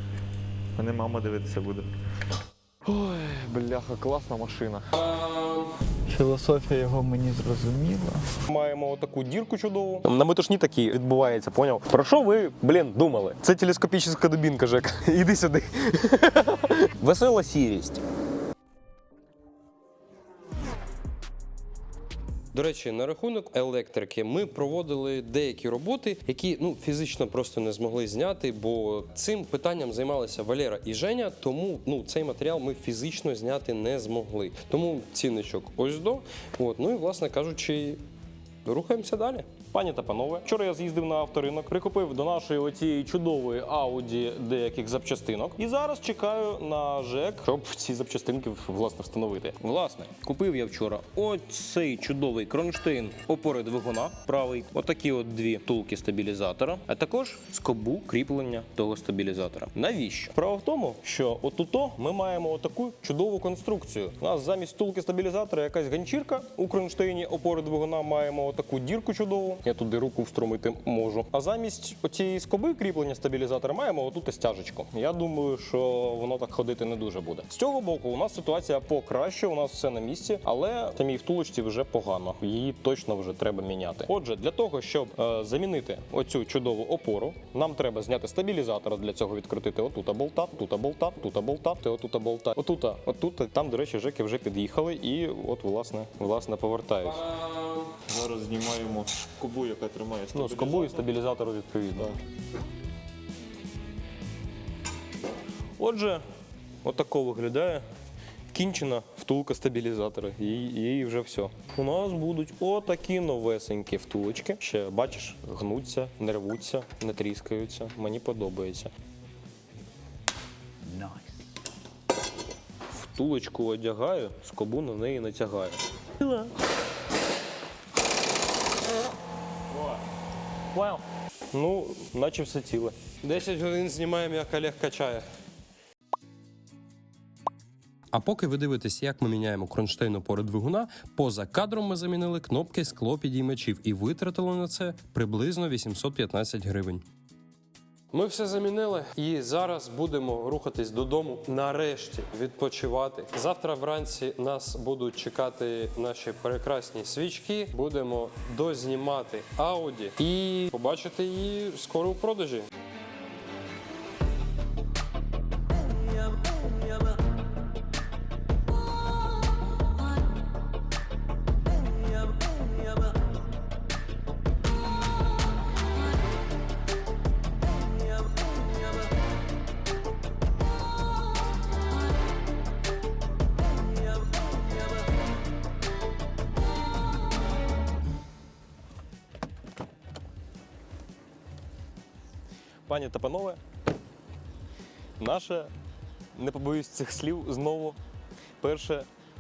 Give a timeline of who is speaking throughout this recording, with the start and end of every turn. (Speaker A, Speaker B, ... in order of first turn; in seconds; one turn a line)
Speaker A: 0.8-1.9
Speaker A: 2.8-4.9
Speaker B: 4.9-5.7
Speaker C: 6.1-8.3
Speaker D: 8.5-18.0
Speaker B: 22.5-38.0
Speaker B: 38.6-39.5
Speaker D: 39.7-97.2
Speaker B: 97.0-97.9
Speaker A: 98.1-101.1
Speaker D: 100.3-102.2
Speaker D: 105.8-106.2
Speaker D: 106.8-107.8
Speaker D: 108.5-118.9
Speaker D: 122.9-126.5
Speaker D: 131.5-133.0
Speaker B: 133.2-135.3
Speaker B: 138.1-143.2
Speaker D: 143.3-143.7
Speaker B: 143.8-145.1
Speaker D: 145.2-147.0
Speaker B: 148.1-162.7
Speaker D: 192.9-193.6
Speaker D: 195.2-195.7
Speaker D: 196.3-198.0
Speaker D: 198.6-199.1